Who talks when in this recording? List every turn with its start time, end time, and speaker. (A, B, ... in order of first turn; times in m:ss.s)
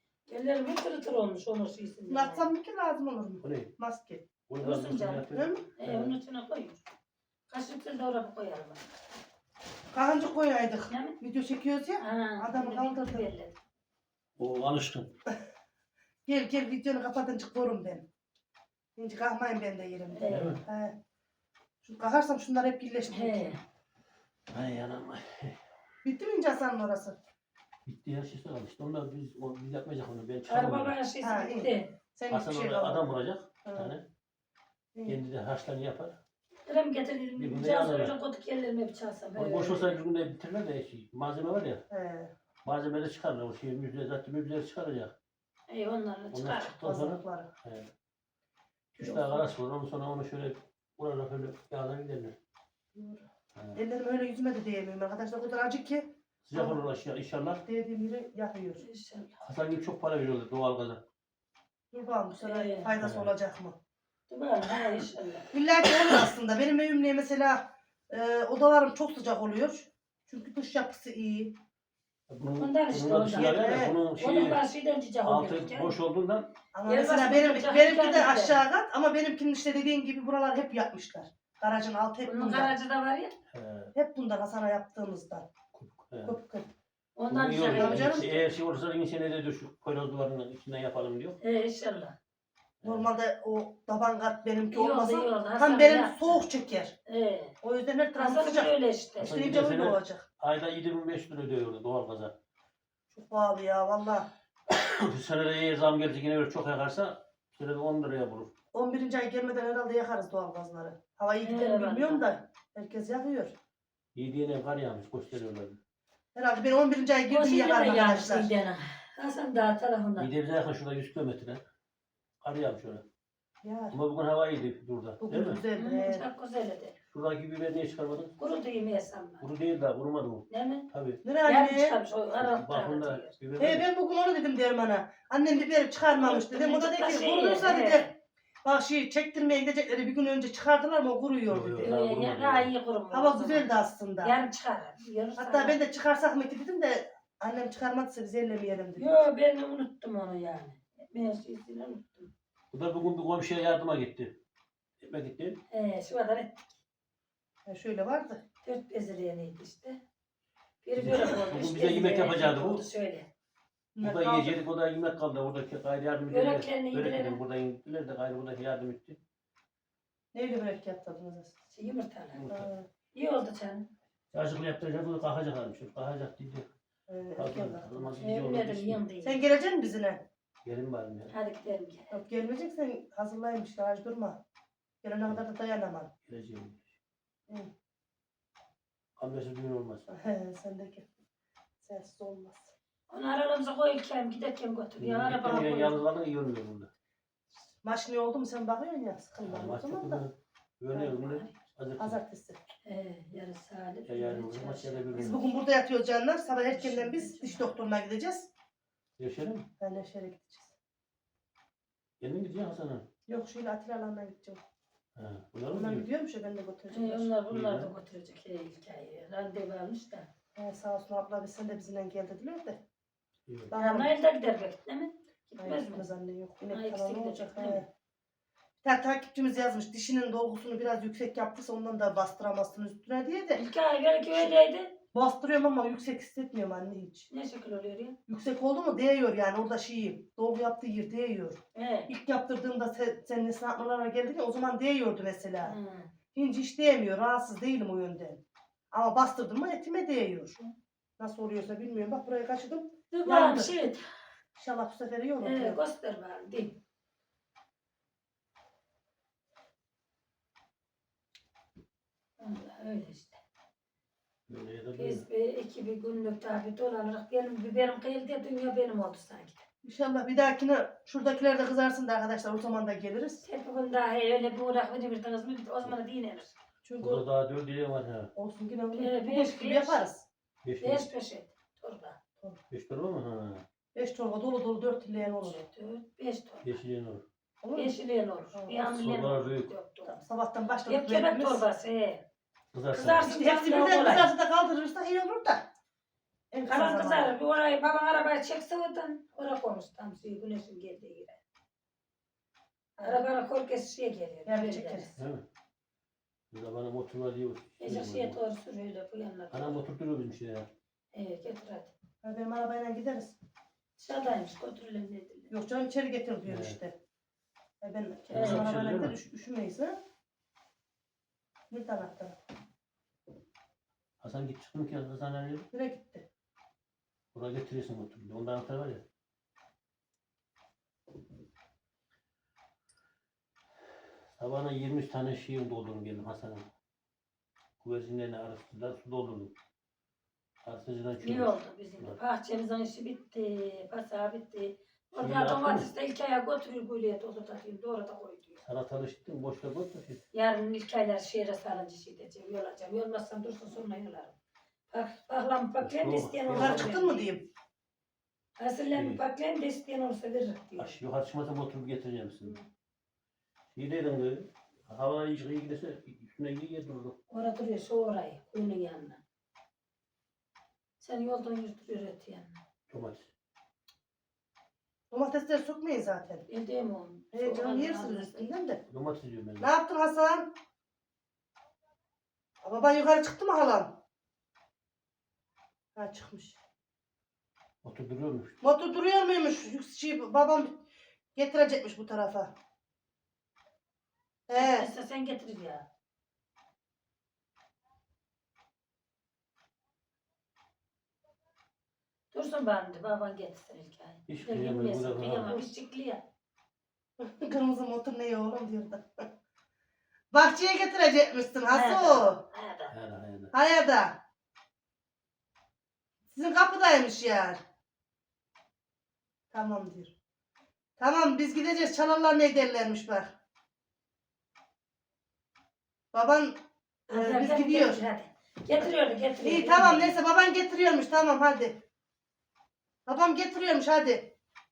0:00.3-0:02.5 A
0:02.1-0:04.3 B
0:03.4-0:03.7 C
0:04.5-0:06.1 C
0:04.6-0:05.3 A
0:05.3-0:05.6 B
0:05.8-0:06.8 A
0:07.5-0:08.9 A
0:09.9-0:13.3 B
0:10.9-0:11.2 A
0:12.0-0:13.6 A
0:14.4-0:15.1 C
0:16.3-0:18.0 B
0:19.0-0:21.0 B
0:20.1-0:20.6 A
0:20.3-0:20.6 C
0:21.8-0:23.6 B
0:23.1-0:23.6 A
0:24.5-0:25.6 C
0:26.0-0:27.2 B
0:27.9-0:31.0 C
0:30.5-0:31.9 A
0:31.2-0:33.1 B
0:32.3-0:34.0 C
0:33.6-0:33.9 B
0:35.1-0:36.2 C
0:36.7-0:40.0 A
0:37.4-0:38.1 C
0:39.4-0:41.8 C
0:41.9-0:42.3 B
0:42.6-0:45.1 C
0:45.7-0:46.7 A
0:46.3-0:47.9 C
0:46.8-0:47.5 B
0:49.0-0:52.4 C
0:49.0-0:49.4 B
0:53.0-0:56.8 B
0:56.4-0:57.6 C
0:57.7-0:58.8 B
0:58.8-0:59.3 A
0:59.4-1:01.0 C
1:01.9-1:03.8 B
1:02.4-1:02.9 A
1:03.0-1:03.3 C
1:04.3-1:05.5 A
1:05.5-1:11.6 B
1:12.3-1:14.6 C
1:12.6-1:16.0 A
1:13.6-1:14.0 B
1:15.2-1:16.5 C
1:16.7-1:22.8 B
1:16.9-1:18.6 A
1:22.2-1:23.3 A
1:23.5-1:23.9 C
1:23.9-1:25.5 B
1:25.7-1:26.4 C
1:26.2-1:26.7 B
1:27.2-1:28.2 A
1:27.3-1:31.4 C
1:27.7-1:28.5 B
1:31.4-1:32.2 A
1:32.8-1:33.1 C
1:32.8-1:37.0 B
1:34.7-1:36.4 A
1:37.1-1:37.5 A
1:37.6-1:40.2 B
1:38.2-1:39.3 A
1:39.2-1:42.3 C
1:43.1-1:44.3 B
1:44.7-1:48.5 C
1:48.7-1:53.5 B
1:51.4-1:52.3 A
1:54.2-1:55.8 C
1:56.4-1:58.5 B
1:57.3-2:00.3 A
2:00.2-2:01.6 C
2:02.4-2:03.0 C
2:03.6-2:04.0 B
2:03.9-2:05.6 C
2:05.2-2:06.2 B
2:05.8-2:07.0 A
2:07.1-2:08.3 C
2:08.4-2:09.4 A
2:09.4-2:11.2 C
2:10.5-2:10.9 A
2:11.2-2:12.0 B
2:11.4-2:13.3 A
2:12.4-2:13.9 C
2:13.6-2:18.1 B
2:16.1-2:18.1 A
2:18.6-2:21.9 B
2:21.5-2:22.7 C
2:21.8-2:23.7 A
2:23.1-2:24.3 B
2:24.2-2:25.8 A
2:25.4-2:29.1 B
2:29.0-2:32.3 A
2:32.7-2:34.3 C
2:35.0-2:35.6 C
2:35.7-2:36.6 A
2:37.7-2:38.4 B
2:38.6-2:40.0 A
2:40.8-2:43.3 A
2:41.0-2:42.8 C
2:44.0-2:44.6 B
2:44.0-2:49.2 C
2:46.3-2:47.4 A
2:50.3-2:51.5 B
2:51.7-2:52.4 A
2:52.4-2:52.7 C
2:52.5-2:52.9 B
2:53.1-2:53.9 A
2:54.3-2:56.7 C
2:57.1-2:58.2 B
2:57.4-2:59.0 C
2:58.2-2:59.4 A
2:59.2-3:00.2 B
3:00.6-3:01.3 C
3:01.3-3:02.1 A
3:02.1-3:04.4 B
3:05.0-3:06.1 B
3:06.3-3:06.9 C
3:09.2-3:10.1 C
3:10.1-3:11.1 B
3:11.8-3:12.7 B
3:13.1-3:15.7 A
3:15.0-3:16.9 C
3:15.4-3:16.0 B
3:17.8-3:20.2 B
3:19.4-3:22.2 C
3:20.9-3:21.2 B
3:21.2-3:21.5 A
3:22.0-3:22.6 B
3:22.8-3:25.4 A
3:24.1-3:25.4 C
3:25.2-3:28.5 B
3:26.7-3:27.7 A
3:29.2-3:29.7 C
3:29.8-3:30.7 B
3:32.2-3:33.1 C
3:33.3-3:34.6 B
3:35.2-3:36.1 C
3:35.7-3:37.3 B
3:36.9-3:40.3 A
3:37.5-3:37.9 C
3:40.6-3:42.8 B
3:43.5-3:43.7 C
3:43.7-3:44.1 B
3:43.8-3:46.1 A
3:45.6-3:47.9 B
3:46.7-3:47.8 A
3:48.8-3:53.6 B
3:53.6-3:54.9 A
3:55.1-3:57.3 B
3:57.3-3:58.2 A
3:58.3-4:05.8 B
4:01.8-4:02.1 A
4:05.6-4:06.1 A
4:06.3-4:10.6 B
4:11.2-4:13.7 B
4:13.1-4:14.0 A
4:14.6-4:15.8 B
4:15.4-4:16.8 A
4:22.4-4:23.4 A
4:24.5-4:25.2 C
4:25.0-4:29.6 A
4:29.8-4:33.4 B
4:33.4-4:36.6 A
4:36.8-4:37.2 B
4:37.0-4:38.3 C
4:38.4-4:40.2 B
4:39.0-4:40.1 A
4:40.6-4:41.1 C
4:40.8-4:42.2 A
4:42.7-4:43.6 C
4:44.0-4:45.7 B
4:45.3-4:46.7 A
4:46.6-4:47.2 C
4:47.6-4:48.0 B
4:47.7-4:50.2 A
4:48.5-4:48.8 B
4:48.8-4:49.7 C
4:50.0-4:51.6 B
4:50.9-4:52.2 A
4:52.7-4:53.3 C
4:52.9-4:54.3 A
4:53.2-4:55.7 B
4:56.5-4:57.4 B
4:56.7-5:01.4 A
5:03.0-5:05.2 A
5:03.0-5:03.3 B
5:04.5-5:05.1 B
5:05.2-5:05.4 C
5:06.5-5:08.4 C
5:07.8-5:09.8 A
5:09.5-5:10.7 C
5:11.1-5:11.9 A
5:12.2-5:13.4 B
5:14.0-5:15.5 A
5:15.5-5:17.0 B
5:16.5-5:16.8 C
5:17.8-5:20.0 B
5:18.3-5:19.2 C
5:18.3-5:18.7 A
5:21.7-5:22.4 B
5:24.2-5:25.7 C
5:25.7-5:26.2 B
5:27.3-5:29.0 C
5:34.4-5:36.7 C
5:37.8-5:39.5 C
5:40.6-5:42.2 C
5:41.2-5:48.6 A
5:45.2-5:45.9 C
5:48.6-5:50.2 C
5:50.3-5:54.4 A
5:54.9-5:57.3 A
5:55.8-5:56.9 C
5:56.6-5:57.5 B
5:58.6-6:00.9 A
5:58.9-5:59.2 C
6:00.8-6:02.6 C
6:03.7-6:07.2 C
6:07.3-6:09.2 A
6:11.0-6:12.6 A
6:12.9-6:13.3 C
6:15.1-6:16.5 B
6:16.5-6:18.5 A
6:17.3-6:18.8 B
6:18.9-6:19.7 C
6:19.6-6:20.5 B
6:22.6-6:24.0 B
6:26.0-6:26.6 B
6:27.8-6:28.5 C
6:28.6-6:30.8 B
6:31.4-6:32.5 B
6:34.5-6:34.9 B
6:34.5-6:35.9 A
6:42.3-6:46.2 A
6:44.3-6:45.6 C
6:47.2-6:49.2 B
6:50.3-6:52.4 B
6:51.7-6:52.9 A
6:52.9-6:53.5 C
6:53.5-6:54.2 B
6:56.3-6:57.6 B
6:59.5-7:00.1 B
7:01.0-7:03.3 B
7:06.1-7:06.5 B
7:07.1-7:10.1 A
7:07.1-7:08.0 B
7:09.4-7:11.8 B
7:13.1-7:14.3 B